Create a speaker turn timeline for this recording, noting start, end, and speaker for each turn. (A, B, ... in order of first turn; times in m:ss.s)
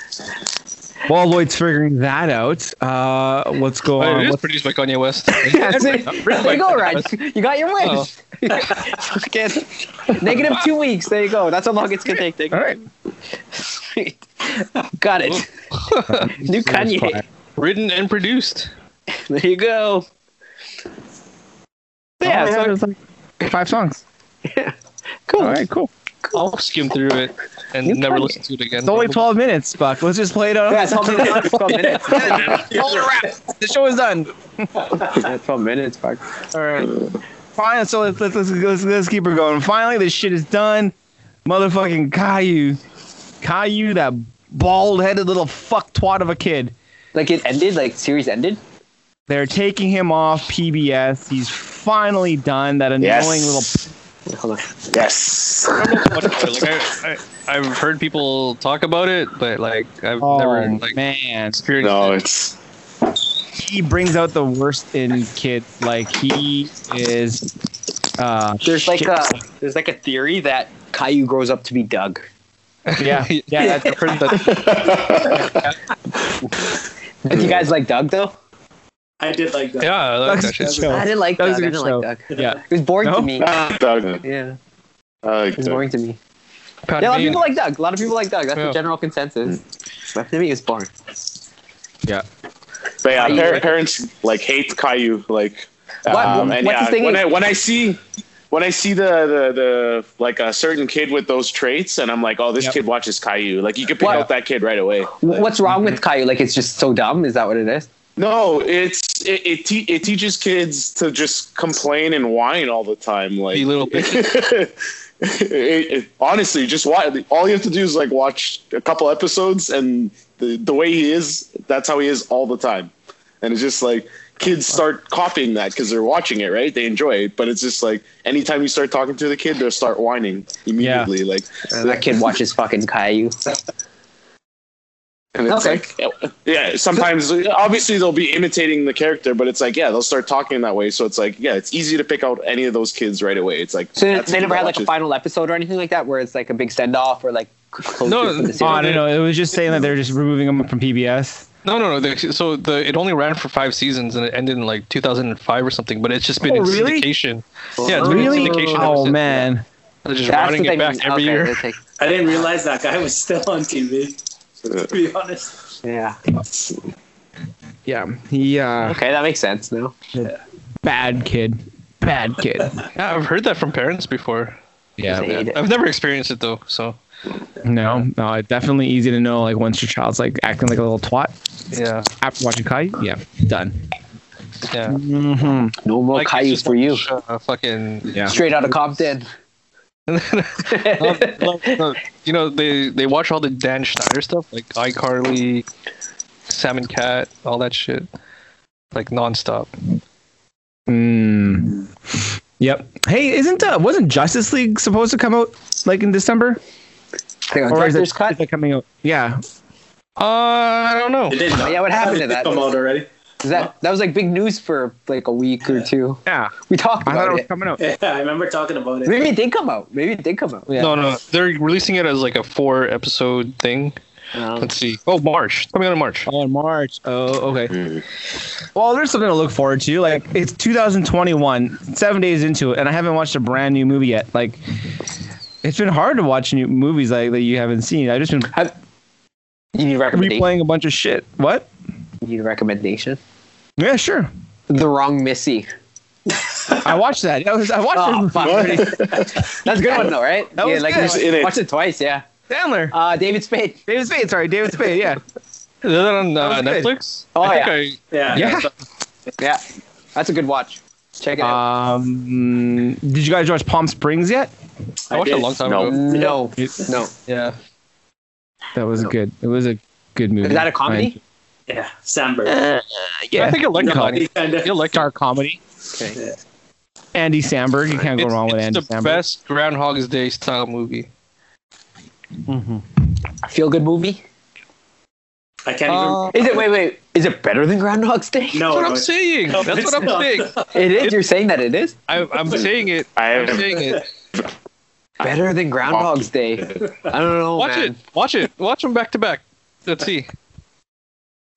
0:01.1-0:04.4 A
0:04.0-0:07.1 B
0:05.4-0:12.8 C
0:07.8-0:08.1 B
0:12.5-0:12.8 A
0:13.5-0:15.5 C
0:15.3-0:16.3 B
0:16.1-0:17.2 A
0:16.2-0:17.2 C
0:17.6-0:18.7 B
0:19.1-0:20.1 C
0:22.2-0:22.8 C
0:22.2-0:24.0 A
0:24.4-0:24.8 C
0:25.3-0:25.6 C
0:25.4-0:25.9 A
0:26.3-0:29.2 B
0:27.8-0:28.4 C
0:28.8-0:34.9 A
0:30.7-0:32.8 C
0:32.6-0:33.2 D
0:35.1-0:36.2 C
0:36.6-0:36.9 B
0:37.6-0:40.9 A
0:41.4-0:42.8 A
0:43.4-0:46.7 A
0:47.2-0:48.6 C
0:49.3-0:53.8 A
0:53.0-0:53.7 E
0:54.3-0:54.8 C
0:54.9-0:55.9 E
0:55.8-1:01.0 B
1:00.2-1:01.6 A
1:01.5-1:02.2 B
1:01.8-1:02.6 E
1:03.5-1:07.5 A
1:08.2-1:09.1 A
1:08.6-1:12.2 C
1:12.9-1:14.8 B
1:13.0-1:14.1 A
1:14.4-1:15.6 E
1:15.4-1:15.7 A
1:16.4-1:18.4 C
1:19.2-1:21.0 D
1:19.8-1:20.9 B
1:20.2-1:23.4 A
1:20.9-1:23.6 C
1:23.4-1:24.2 E
1:24.2-1:24.6 C
1:25.2-1:25.8 E
1:25.6-1:26.2 C
1:26.9-1:27.4 B
1:27.0-1:29.6 C
1:30.1-1:30.9 C
1:33.0-1:38.0 E
1:33.2-1:33.7 C
1:36.1-1:37.3 C
1:36.1-1:36.6 A
1:38.5-1:45.5 E
1:44.0-1:44.3 C
1:45.1-1:47.9 C
1:48.2-2:02.9 E
1:53.5-1:54.4 B
2:03.4-2:12.0 E
2:10.8-2:11.1 A
2:11.7-2:13.4 C
2:15.4-2:24.9 E
2:15.5-2:15.8 C
2:24.0-2:29.0 C
2:28.0-2:29.1 B
2:28.6-2:31.5 A
2:31.6-2:39.5 B
2:36.4-2:37.1 A
2:37.8-2:39.0 C
2:38.0-2:39.6 A
2:40.0-2:41.6 B
2:40.3-2:41.8 C
2:42.0-2:44.2 D
2:44.8-2:45.6 D
2:45.8-2:46.2 C
2:47.9-2:49.0 A
2:48.8-2:50.0 C
2:50.8-2:52.8 A
2:53.0-2:54.6 B
2:55.0-2:55.3 A
2:55.1-2:55.6 C
2:55.2-2:57.0 B
2:57.6-3:01.3 A
3:01.7-3:02.1 B
3:02.2-3:03.8 A
3:04.7-3:05.0 B
3:04.9-3:05.8 A
3:05.8-3:07.1 C
3:06.1-3:08.3 B
3:08.1-3:08.4 A
3:08.3-3:09.3 C
3:10.1-3:15.6 B
3:10.7-3:11.8 C
3:16.5-3:18.1 B
3:18.9-3:19.7 B
3:20.9-3:26.6 A
3:27.5-3:28.4 C
3:27.7-3:29.4 A
3:30.2-3:31.5 B
3:31.3-3:33.7 D
3:31.6-3:32.6 C
3:33.4-3:37.5 C
3:36.3-3:36.5 A
3:37.0-3:37.8 A
3:37.8-3:39.2 D
3:39.0-3:40.7 C
3:40.7-3:41.0 A
3:40.8-3:44.0 B
3:44.3-3:44.7 C
3:44.6-3:46.3 B
3:46.3-3:47.8 A
3:47.7-3:48.0 E
3:48.8-3:54.6 A
3:55.6-3:58.5 A
3:59.7-4:00.5 C
4:00.1-4:01.7 A
4:02.2-4:03.2 C
4:03.8-4:04.3 A
4:04.7-4:05.7 C
4:06.8-4:09.1 A
4:07.9-4:12.2 C
4:08.4-4:10.0 E
4:10.6-4:11.2 A
4:10.9-4:11.6 E
4:12.5-4:12.9 A
4:12.9-4:13.8 C
4:13.9-4:15.2 A
4:15.8-4:18.7 B
4:16.4-4:16.9 A
4:17.4-4:17.8 C
4:18.1-4:18.5 D
4:18.3-4:18.7 A
4:20.2-4:21.6 C
4:21.4-4:24.5 A
4:25.1-4:25.4 D
4:25.1-4:26.2 B
4:25.2-4:26.0 E
4:25.8-4:27.1 C
4:27.3-4:27.6 B
4:28.8-4:31.2 A
4:30.4-4:31.2 C
4:31.7-4:32.6 D
4:32.5-4:34.3 A
4:33.4-4:35.1 B
4:33.7-4:34.8 D
4:34.9-4:35.6 A
4:35.9-4:36.2 C
4:37.1-4:39.2 A
4:38.0-4:41.1 B
4:42.5-4:42.8 A
4:43.4-4:44.2 C
4:45.6-4:46.6 D
4:45.9-4:46.4 B
4:46.3-4:48.7 C
4:48.5-4:50.7 D
4:48.7-4:51.2 B
4:50.7-4:51.9 C
4:52.1-4:54.0 B
4:53.2-4:54.5 E
4:55.2-4:58.0 C
4:57.6-5:00.3 B